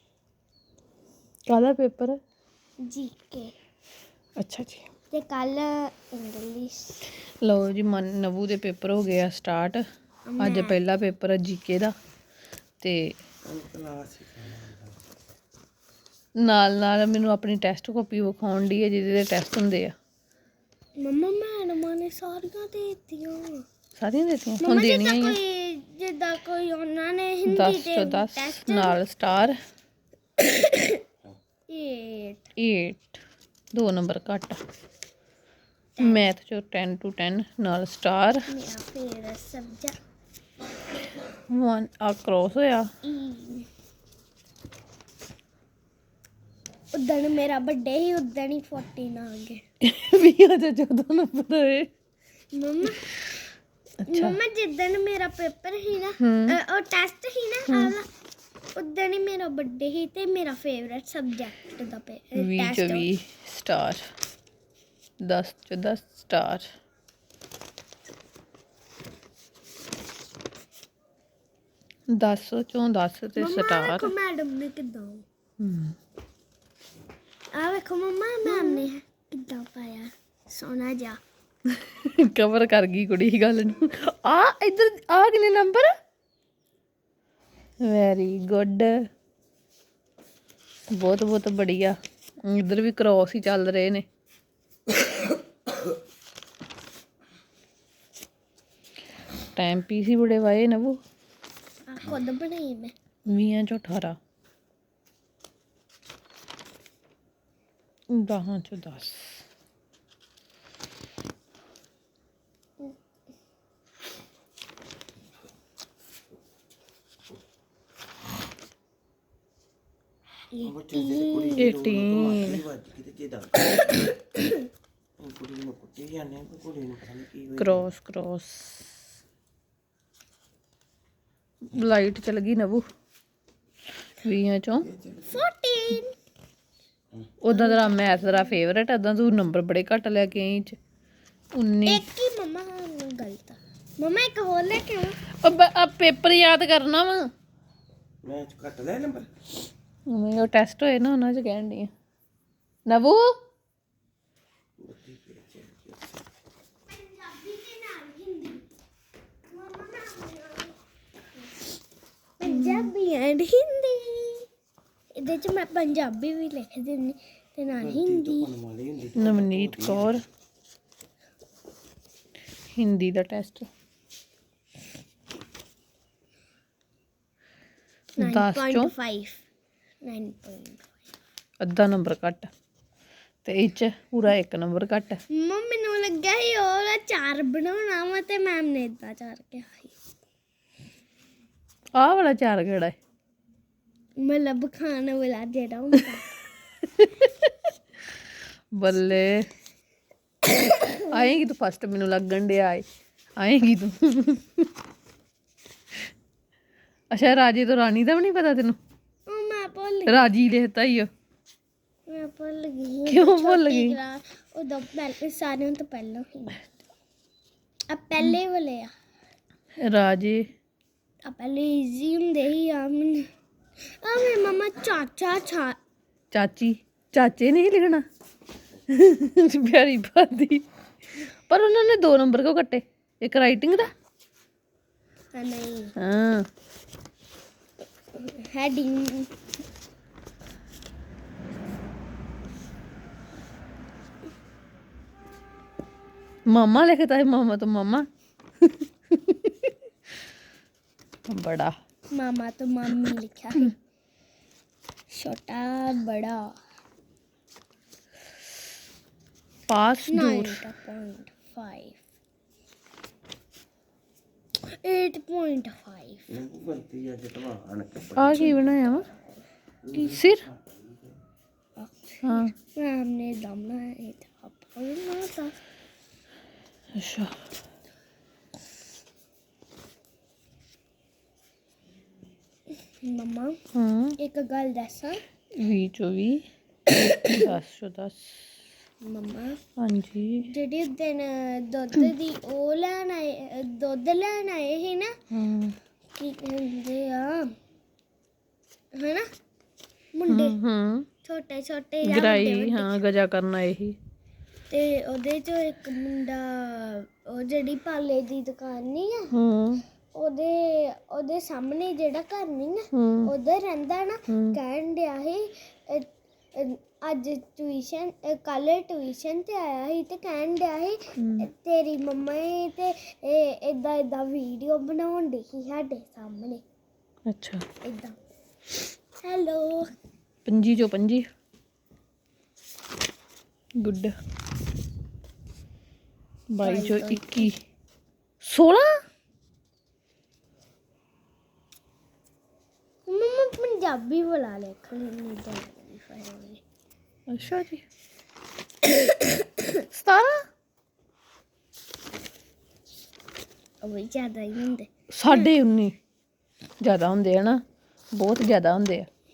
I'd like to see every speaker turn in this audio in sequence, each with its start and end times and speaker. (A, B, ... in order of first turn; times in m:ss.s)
0:01.5-0:02.2 A
0:02.8-0:03.5 B
0:04.4-0:04.8 A
0:05.1-0:07.0 B
0:07.4-0:09.8 A
0:10.3-0:10.8 B
0:10.4-0:11.9 A
0:12.8-0:13.1 A
0:13.5-0:14.9 C
0:16.4-0:19.9 A
0:21.0-0:23.6 B
0:24.0-0:25.4 A
0:24.6-0:29.0 B
0:27.5-0:29.6 A
0:30.4-0:31.0 B
0:31.7-0:32.5 B
0:32.6-0:33.2 A
0:33.7-0:34.6 A
0:36.0-0:36.2 B
0:36.0-0:38.5 A
0:38.5-0:40.0 B
0:41.5-0:42.8 A
0:43.0-0:43.7 B
0:46.9-0:49.6 B
0:49.8-0:51.9 A
0:52.5-0:53.3 B
0:52.8-0:53.1 A
0:54.0-0:54.4 A
0:54.0-0:58.1 B
0:56.2-0:56.6 A
0:58.8-1:03.1 B
1:02.4-1:04.0 A
1:05.2-1:06.7 A
1:12.1-1:14.1 A
1:13.4-1:15.2 B
1:15.6-1:15.9 A
1:17.5-1:21.2 B
1:18.4-1:18.9 A
1:21.7-1:25.9 A
1:27.8-1:28.9 A
1:30.9-1:34.0 A
1:39.6-1:40.9 A
1:41.9-1:42.9 B
1:43.3-1:44.2 A
1:48.1-1:49.4 A
2:00.5-2:01.7 B
2:00.6-2:03.7 C
2:01.6-2:02.6 A
2:05.2-2:07.8 C
2:07.6-2:08.9 A
2:11.6-2:12.8 A
2:14.2-2:14.9 A
2:15.0-2:15.4 C
2:15.2-2:16.1 B
2:17.4-2:20.8 A
2:17.5-2:18.6 B
2:21.5-2:22.0 A
2:21.8-2:25.2 B
2:25.4-2:27.2 A
2:28.2-2:29.3 C
2:30.1-2:31.9 A
2:32.9-2:33.2 A
2:34.8-2:36.0 C
2:36.9-2:38.6 B
2:39.5-2:40.8 B
2:42.4-2:44.5 B
2:42.4-2:42.9 A
2:45.2-2:48.5 B
2:47.8-2:50.2 C
2:49.2-2:50.2 A
2:52.8-2:53.7 A
2:58.2-2:58.9 A
2:58.2-2:59.4 B
3:00.0-3:00.9 B
3:01.6-3:02.5 A
3:03.4-3:05.2 A
3:05.4-3:10.0 B
3:12.0-3:12.9 A
3:14.2-3:16.3 B
3:16.9-3:17.5 A
3:18.7-3:19.4 A
3:20.6-3:21.0 B
3:21.0-3:22.8 A
3:23.4-3:24.7 A
3:27.1-3:28.8 A
3:29.3-3:30.3 B
3:30.1-3:31.1 A
3:32.1-3:36.6 B
3:33.1-3:34.0 A
3:37.9-3:38.9 B
3:39.8-3:40.4 A
3:41.2-3:43.2 B
3:44.0-3:45.8 B
3:46.3-3:48.0 A
3:48.9-3:50.6 A
3:51.5-3:53.9 A
3:55.3-3:55.9 B
3:56.0-3:56.4 A
3:58.1-3:59.3 B
4:06.5-4:08.0 A
4:08.6-4:09.7 A
4:11.3-4:11.7 A
4:12.1-4:13.7 B
4:15.1-4:16.5 B
4:19.7-4:20.6 A
4:20.1-4:22.0 B
4:24.6-4:26.3 B
4:26.3-4:28.6 C
4:28.2-4:29.0 A
4:28.4-4:29.4 B
4:29.9-4:30.7 C
4:30.0-4:30.4 A
4:31.8-4:35.5 B
4:32.2-4:32.5 A
4:37.0-4:37.3 A
4:42.8-4:43.6 B
4:43.7-4:44.2 A
4:44.2-4:45.2 B
4:45.6-4:46.4 A
4:46.9-4:48.5 A
4:49.0-4:49.6 B
4:49.8-4:50.5 A
4:50.4-4:55.1 B
4:55.3-4:55.8 A
4:56.1-4:57.5 B
4:58.9-4:59.2 B
5:00.1-5:00.6 B
5:00.3-5:01.1 A
5:01.2-5:03.0 B
5:02.0-5:04.0 A
5:04.7-5:09.3 B
5:09.3-5:09.8 A
5:10.1-5:26.6 B
5:12.9-5:13.3 A
5:14.3-5:14.6 A
5:21.2-5:21.4 A
5:27.3-5:27.6 A
5:27.8-5:28.2 B
5:29.2-5:29.9 B
5:30.4-5:31.2 A
5:33.8-5:34.1 A
5:36.5-5:37.5 A
5:36.6-5:37.5 B
5:38.4-5:38.9 A
5:43.1-5:46.6 B
5:47.3-5:47.8 A
5:49.2-5:49.8 B
5:49.9-5:50.4 A
5:53.8-5:54.9 B
5:55.1-5:55.9 A
5:56.8-5:57.6 A
5:58.1-5:59.1 A